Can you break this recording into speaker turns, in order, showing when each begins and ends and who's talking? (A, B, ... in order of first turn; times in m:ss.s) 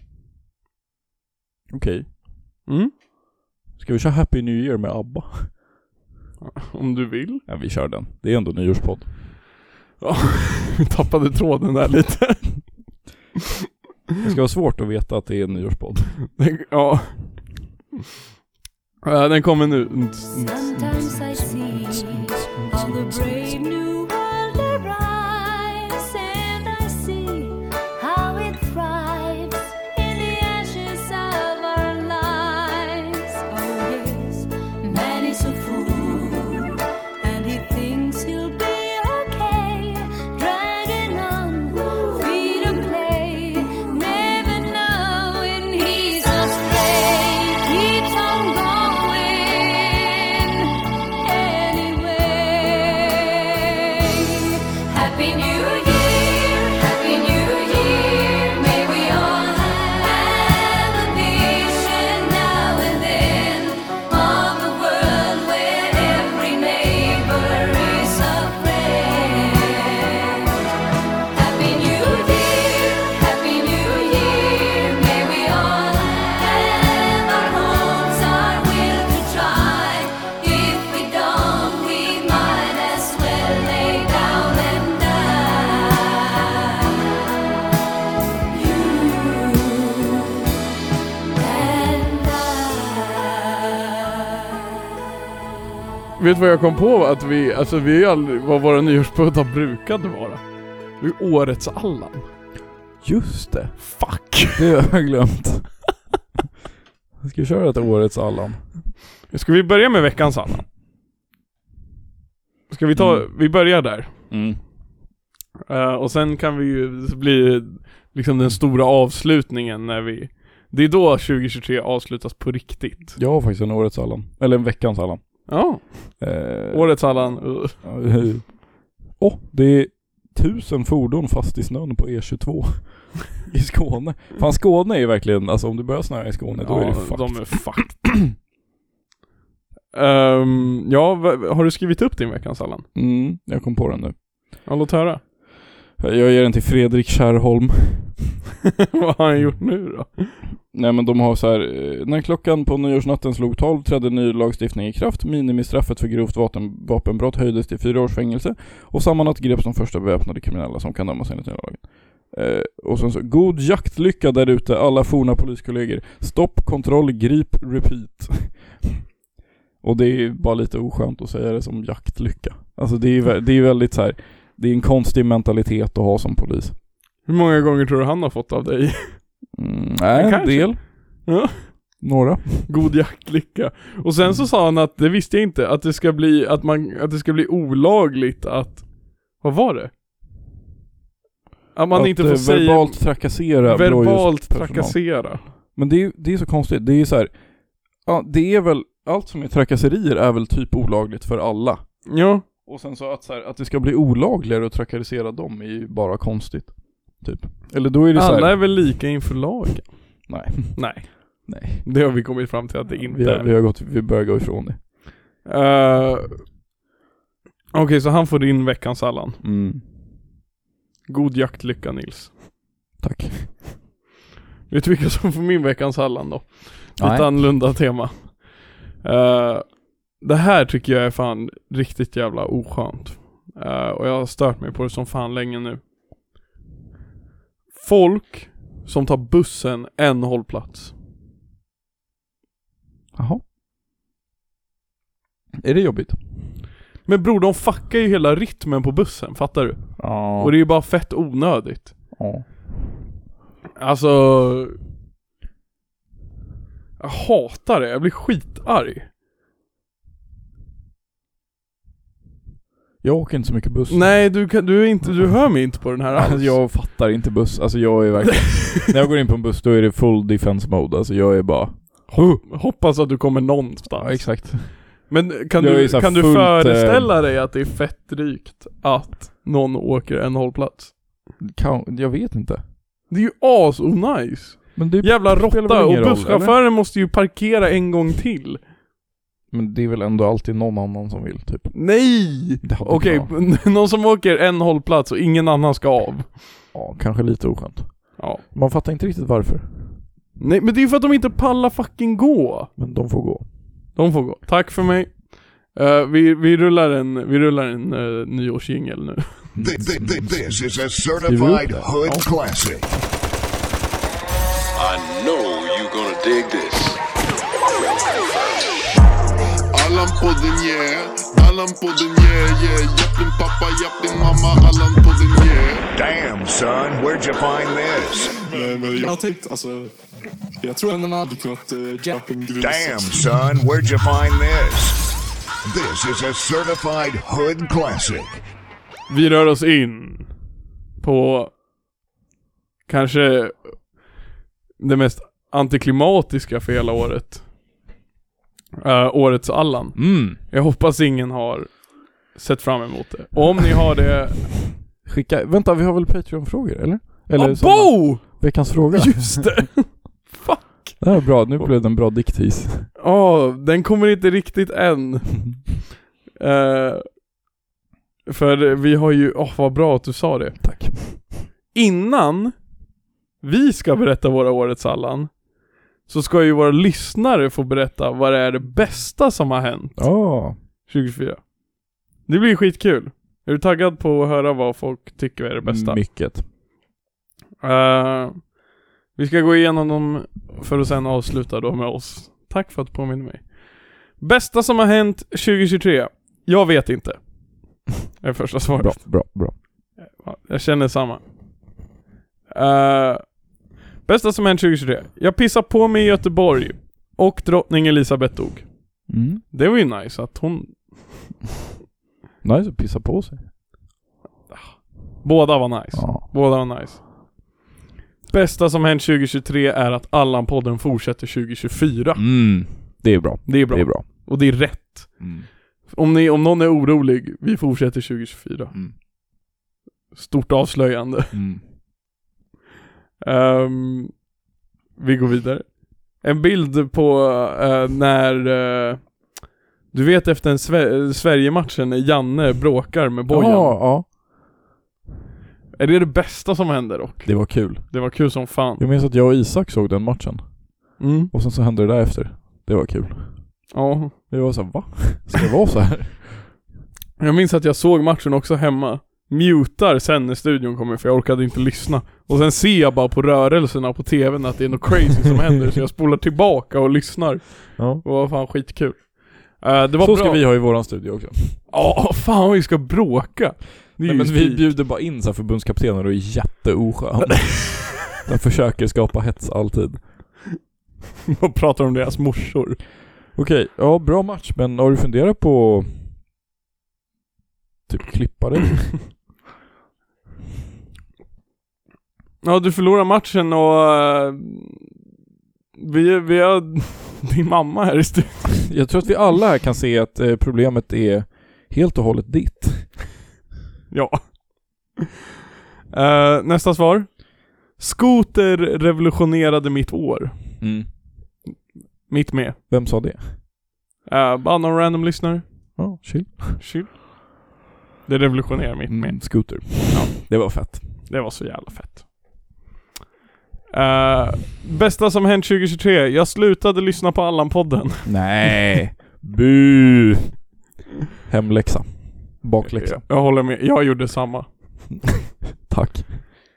0:01.7-0:02.1 A
0:02.7-0:02.9 B
0:03.8-0:05.6 A
0:06.4-0:07.4 B
0:07.5-0:09.1 A
0:10.0-0:13.0 B
0:14.2-0:16.2 A
0:16.3-0:17.7 B
0:19.0-0:20.9 B
0:20.5-1:10.6 C
0:20.8-0:23.6 A
1:11.3-1:27.1 C
1:28.5-1:30.4 C
1:31.4-1:33.5 C
1:36.2-1:42.3 B
1:43.0-1:45.8 A
1:43.9-1:44.6 B
1:47.2-1:48.7 A
1:49.3-1:50.6 B
1:52.7-1:54.1 B
1:53.0-1:53.3 A
1:54.3-1:54.6 A
1:55.7-2:03.2 B
2:03.2-2:18.3 A
2:05.5-2:07.9 B
2:16.6-2:18.0 B
2:19.9-2:22.9 B
2:23.0-2:24.2 A
2:24.6-2:25.2 B
2:26.0-2:28.3 A
2:28.8-2:30.4 B
2:30.7-2:48.9 A
2:49.8-2:56.8 A
2:57.2-2:59.4 B
2:59.6-3:01.3 A
3:00.1-3:02.0 B
3:02.0-3:02.7 A
3:02.7-3:09.9 B
3:11.8-3:15.4 B
3:11.9-3:22.1 A
3:22.1-3:22.4 B
3:22.6-3:28.6 A
3:28.1-3:33.5 B
3:30.3-3:31.8 A
3:33.0-3:34.8 A
3:35.4-3:36.4 B
3:37.7-3:39.4 B
3:39.4-3:39.8 A
3:41.1-3:42.4 B
3:43.0-3:43.6 A
3:44.7-3:55.8 B
3:47.0-3:47.4 A
3:57.7-4:00.9 B
4:03.2-4:03.4 A
4:05.6-4:06.2 A
4:07.0-4:12.2 B
4:10.0-4:10.6 A
4:12.1-4:12.5 A
4:13.8-4:14.8 B
4:17.0-4:19.1 B
4:23.0-4:24.4 A
4:23.9-4:26.6 B
4:26.1-4:32.4 A
4:28.4-4:28.7 B
4:32.1-4:41.0 B
4:33.9-4:37.2 A
4:41.4-4:42.6 A
4:43.1-4:48.6 B
4:44.8-4:46.6 A
4:49.5-4:53.3 A
4:51.7-4:56.4 B
4:56.7-5:00.0 A
5:00.4-5:02.7 B
5:02.8-5:03.5 A
5:04.0-5:09.5 B
5:09.6-5:10.3 A
5:09.6-5:13.0 D
5:11.2-5:11.9 A
5:14.8-5:17.0 E
5:17.8-5:18.7 E
5:19.7-5:25.9 F
5:26.0-5:28.4 D
5:28.5-5:30.0 G
5:28.7-5:29.1 F
5:30.6-5:33.2 G
5:32.6-5:35.0 D
5:35.6-5:38.4 D
5:39.1-5:40.3 B
5:41.0-5:41.5 B
5:42.9-5:43.9 B
5:44.8-5:47.5 B
5:48.8-5:54.6 B
5:50.0-5:50.4 A
5:55.0-5:59.7 A
5:57.4-6:01.7 B
6:01.0-6:02.9 A
6:03.0-6:07.1 B
6:08.3-6:12.8 B
6:10.6-6:11.5 A
6:13.4-6:21.6 B
6:20.0-6:20.6 A
6:22.2-6:26.0 B
6:25.6-6:26.5 A
6:27.6-6:28.6 B
6:29.1-6:39.2 B
6:38.8-6:39.6 A
6:40.0-6:41.2 B
6:42.5-6:43.4 B
6:44.0-6:51.3 B
6:49.1-6:49.4 A
6:52.4-6:53.5 A
6:54.5-6:57.1 B
6:55.9-6:56.2 A
6:58.3-7:02.3 B
7:02.2-7:04.3 A
7:03.5-7:05.3 B
7:05.2-7:05.5 A
7:05.9-7:08.8 B
7:10.1-7:11.4 B
7:11.3-7:11.6 A
7:13.2-7:14.3 B
7:15.0-7:19.4 B
7:19.9-7:23.8 B
7:23.3-7:24.1 A
7:25.8-7:28.8 B
7:27.2-7:33.7 A
7:31.0-7:31.3 B
7:33.7-7:34.1 B
7:34.3-7:36.5 A
7:37.2-7:50.5 B
7:47.8-7:48.0 A
7:50.0-7:51.6 A
7:51.7-7:54.7 B
7:54.0-8:00.4 A
8:01.3-8:02.8 B
8:03.4-8:06.2 A
8:07.9-8:09.2 A
8:12.4-8:14.9 B
8:15.8-8:18.6 B
8:18.7-8:23.1 A
8:23.9-8:25.0 B
8:25.9-8:30.7 B
8:30.6-8:30.9 A
8:32.1-8:32.6 B
8:32.7-8:33.4 A
8:34.1-8:35.9 B
8:35.8-8:36.6 A
8:36.6-8:37.2 B
8:38.1-8:42.1 B
8:38.9-8:40.9 A
8:43.7-8:48.3 B
8:48.0-8:50.3 A
8:51.3-8:53.0 A
8:52.6-8:55.0 B
8:55.7-8:56.2 A